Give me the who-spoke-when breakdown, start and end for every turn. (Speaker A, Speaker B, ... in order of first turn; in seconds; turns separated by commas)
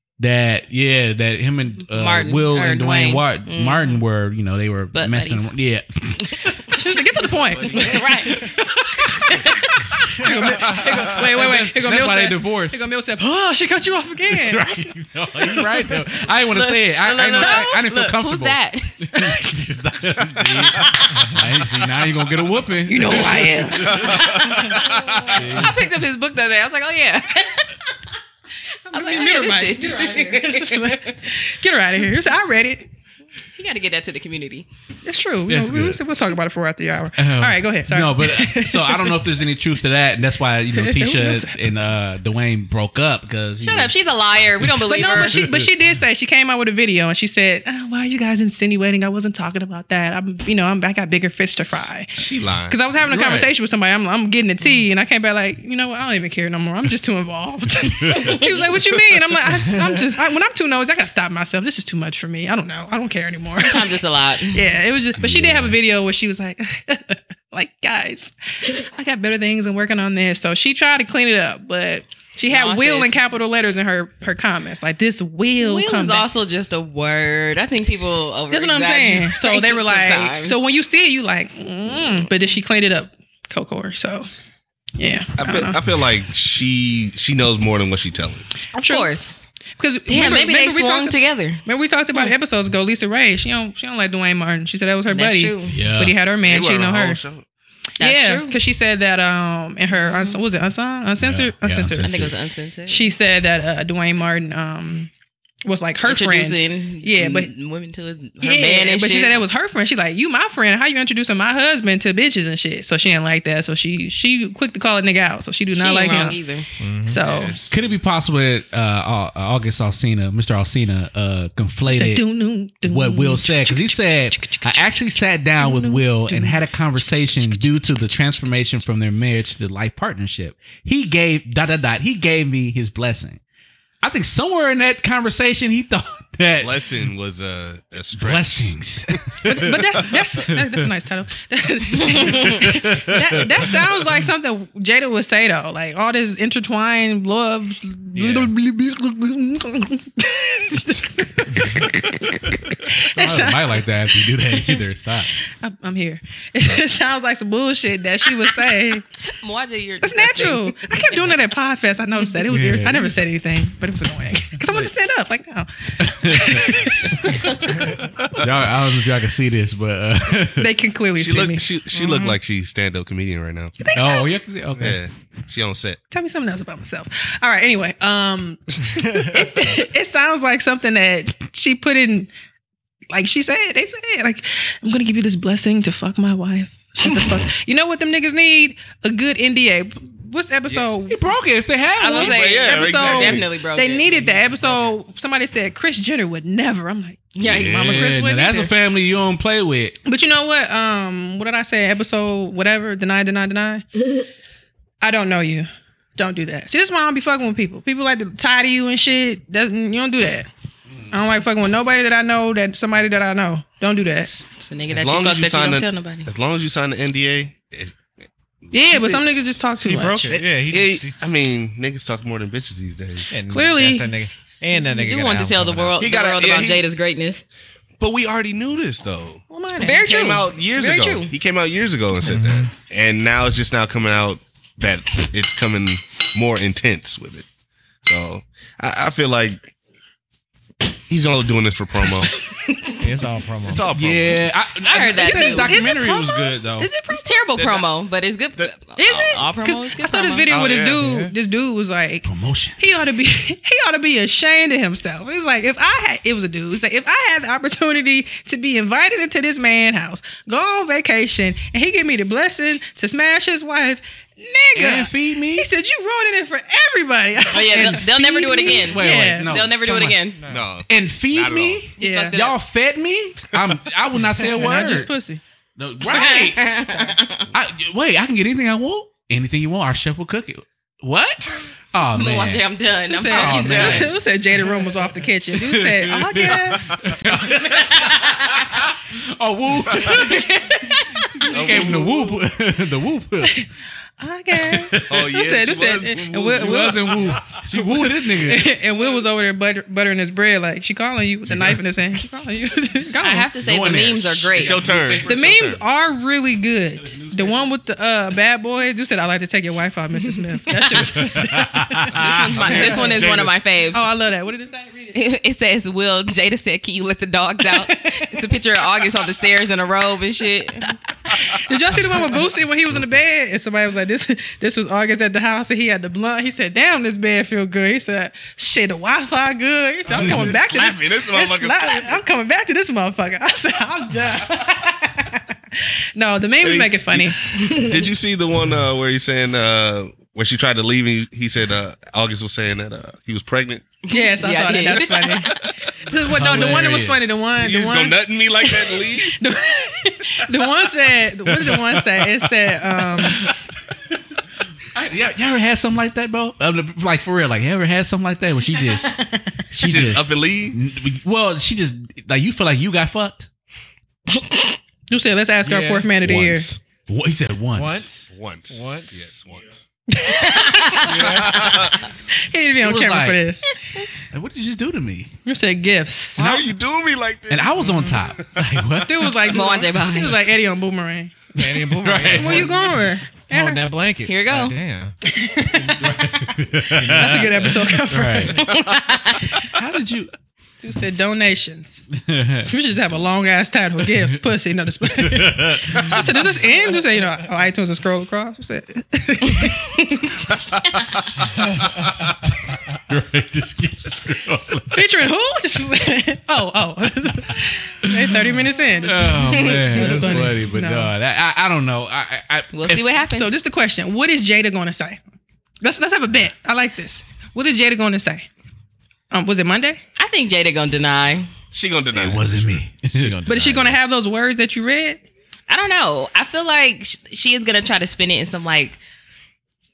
Speaker A: 0.2-6.6, Speaker B: 1.9-4.0, Speaker B: 5.0-5.5, Speaker B: 6.2-6.6, Speaker C: 6.7-8.5, Speaker B: 7.6-8.5, Speaker A: 8.0-9.4, Speaker B: 9.1-9.7, Speaker C: 9.1-14.9, Speaker A: 10.2-12.8, Speaker A: 14.4-24.3, Speaker C: 15.5-15.8, Speaker B: 16.5-18.9, Speaker C: 17.3-17.7, Speaker C: 19.2-19.4, Speaker C: 22.9-24.7, Speaker D: 23.9-25.3, Speaker B: 24.6-27.7, Speaker A: 25.3-25.8, Speaker C: 28.9-32.9, Speaker B: 28.9-31.1, Speaker B: 33.6-34.7, Speaker C: 35.0-39.3, Speaker A: 35.5-36.1, Speaker A: 37.2-43.9, Speaker C: 40.7-41.6, Speaker B: 43.6-45.4, Speaker A: 44.6-45.7, Speaker C: 44.9-76.3, Speaker D: 52.1-52.8, Speaker A: 53.0-53.5, Speaker A: 58.0-58.3, Speaker B: 63.6-64.6, Speaker A: 65.2-65.8, Speaker B: 72.5-73.2, Speaker B: 75.6-80.6, Speaker C: 78.5-84.3, Speaker B: 82.0-82.3, Speaker C: 85.0-85.8, Speaker D: 85.4-88.5, Speaker C: 88.7-89.1, Speaker B: 88.8-89.3, Speaker C: 89.8-97.2, Speaker B: 90.1-91.6, Speaker B: 95.1-95.8, Speaker A: 95.7-96.2, Speaker D: 96.4-97.5, Speaker B: 98.0-98.6, Speaker C: 98.0-102.3, Speaker B: 99.9-100.4, Speaker A: 101.2-102.3, Speaker B: 102.0-103.1, Speaker C: 102.9-105.1, Speaker C: 105.7-107.5, Speaker B: 106.0-109.4, Speaker C: 108.4-116.4, Speaker B: 115.7-116.7, Speaker E: 116.8-117.2, Speaker C: 117.1-117.6, Speaker D: 117.2-118.0, Speaker A: 117.7-122.2, Speaker C: 121.9-127.6, Speaker A: 122.8-133.4, Speaker A: 134.0-136.9, Speaker D: 136.6-138.6, Speaker A: 138.2-139.8, Speaker C: 139.4-153.8, Speaker A: 140.4-140.9, Speaker A: 142.2-143.7, Speaker A: 148.2-148.5, Speaker A: 153.1-155.3, Speaker C: 154.5-154.8, Speaker C: 155.5-159.1, Speaker B: 159.3-161.4, Speaker C: 160.0-168.1, Speaker A: 162.5-163.1, Speaker A: 166.0-167.3, Speaker A: 168.4-170.7, Speaker C: 170.6-171.7, Speaker D: 171.2-173.8, Speaker C: 173.8-174.3, Speaker A: 173.9-175.0, Speaker D: 174.8-176.0, Speaker C: 176.1-182.3, Speaker C: 183.1-191.2, Speaker A: 191.1-192.4, Speaker B: 192.0-194.3, Speaker D: 192.2-193.5, Speaker C: 192.2-198.7, Speaker B: 197.4-198.1, Speaker D: 197.5-197.9, Speaker A: 197.5-200.0, Speaker C: 200.1-204.0, Speaker C: 205.0-210.5, Speaker C: 211.1-214.3, Speaker B: 214.3-216.3, Speaker D: 214.9-217.9, Speaker C: 218.7-220.3, Speaker D: 218.8-219.6, Speaker E: 219.8-221.2, Speaker D: 220.3-223.3, Speaker E: 223.3-226.0, Speaker C: 223.5-224.1, Speaker B: 224.7-227.4, Speaker D: 226.0-226.8, Speaker D: 228.0-229.4, Speaker C: 229.5-230.2, Speaker B: 229.8-231.3, Speaker D: 230.0-237.5, Speaker E: 232.3-232.7, Speaker D: 238.0-239.7, Speaker D: 241.1-242.3, Speaker E: 243.0-243.9, Speaker D: 243.7-244.5, Speaker A: 243.9-246.9, Speaker B: 244.9-245.8, Speaker C: 244.9-247.4, Speaker B: 247.1-250.5, Speaker C: 249.0-252.3, Speaker D: 250.5-251.1, Speaker E: 250.8-251.3, Speaker A: 252.2-253.0, Speaker C: 252.8-269.6, Speaker A: 264.8-265.7, Speaker B: 267.5-270.4, Speaker A: 268.8-270.2, Speaker D: 270.5-271.9, Speaker A: 270.9-275.1, Speaker B: 272.0-272.6, Speaker C: 272.0-272.4, Speaker C: 274.4-275.4, Speaker A: 275.8-276.9, Speaker B: 276.1-277.4, Speaker A: 277.5-282.7, Speaker B: 282.1-284.1, Speaker C: 283.1-286.9, Speaker A: 283.3-284.1, Speaker A: 285.6-290.5, Speaker B: 287.4-288.6, Speaker C: 290.2-291.9, Speaker A: 291.2-293.6, Speaker D: 291.5-292.4, Speaker C: 294.2-297.2, Speaker A: 294.6-295.2, Speaker D: 295.1-297.6, Speaker A: 296.6-298.7, Speaker C: 297.8-303.5, Speaker A: 301.5-301.8, Speaker B: 303.2-304.9, Speaker A: 303.6-305.8, Speaker D: 304.5-305.8, Speaker C: 305.2-313.3, Speaker A: 307.1-307.6, Speaker A: 310.8-313.0, Speaker B: 312.1-314.1, Speaker D: 312.5-313.6, Speaker C: 313.9-315.2, Speaker B: 315.1-320.9, Speaker C: 317.6-318.4, Speaker C: 321.3-337.4, Speaker D: 330.1-332.2, Speaker D: 336.6-343.9, Speaker B: 337.6-337.9, Speaker B: 344.1-345.6, Speaker C: 344.1-353.5, Speaker A: 346.3-347.4, Speaker D: 347.5-349.4, Speaker A: 351.4-353.6, Speaker A: 354.9-359.2, Speaker C: 358.9-359.2, Speaker A: 359.7-363.5, Speaker D: 359.8-360.8, Speaker C: 365.1-366.7, Speaker E: 365.6-366.1, Speaker D: 366.2-366.8, Speaker A: 367.1-368.1, Speaker E: 367.8-369.2, Speaker D: 368.3-369.9, Speaker C: 370.1-371.5, Speaker B: 370.4-371.2, Speaker D: 371.1-372.0, Speaker E: 371.1-371.7, Speaker C: 372.3-373.8, Speaker A: 372.8-373.4, Speaker A: 374.3-375.3, Speaker C: 375.5-376.7, Speaker D: 376.4-378.2, Speaker A: 377.5-379.5, Speaker C: 379.0-381.4, Speaker B: 379.5-380.5, Speaker E: 381.6-385.1, Speaker A: 381.9-382.8, Speaker C: 382.3-383.8, Speaker B: 384.3-384.8, Speaker C: 385.3-386.6, Speaker A: 385.9-388.7, Speaker E: 386.9-388.0, Speaker C: 387.1-388.8, Speaker B: 388.5-389.4, Speaker A: 389.6-390.3, Speaker C: 390.8-392.1, Speaker A: 392.1-392.7, Speaker C: 392.7-400.6, Speaker A: 395.2-396.2, Speaker A: 402.9-405.3, Speaker C: 404.9-411.1, Speaker A: 408.0-408.4, Speaker A: 409.0-413.2, Speaker B: 412.7-413.6, Speaker C: 413.3-415.2, Speaker C: 415.8-418.5, Speaker C: 419.3-420.0, Speaker B: 420.2-421.5, Speaker D: 421.7-422.8, Speaker A: 422.1-423.4, Speaker E: 423.1-424.0, Speaker C: 423.5-425.2, Speaker B: 425.7-429.0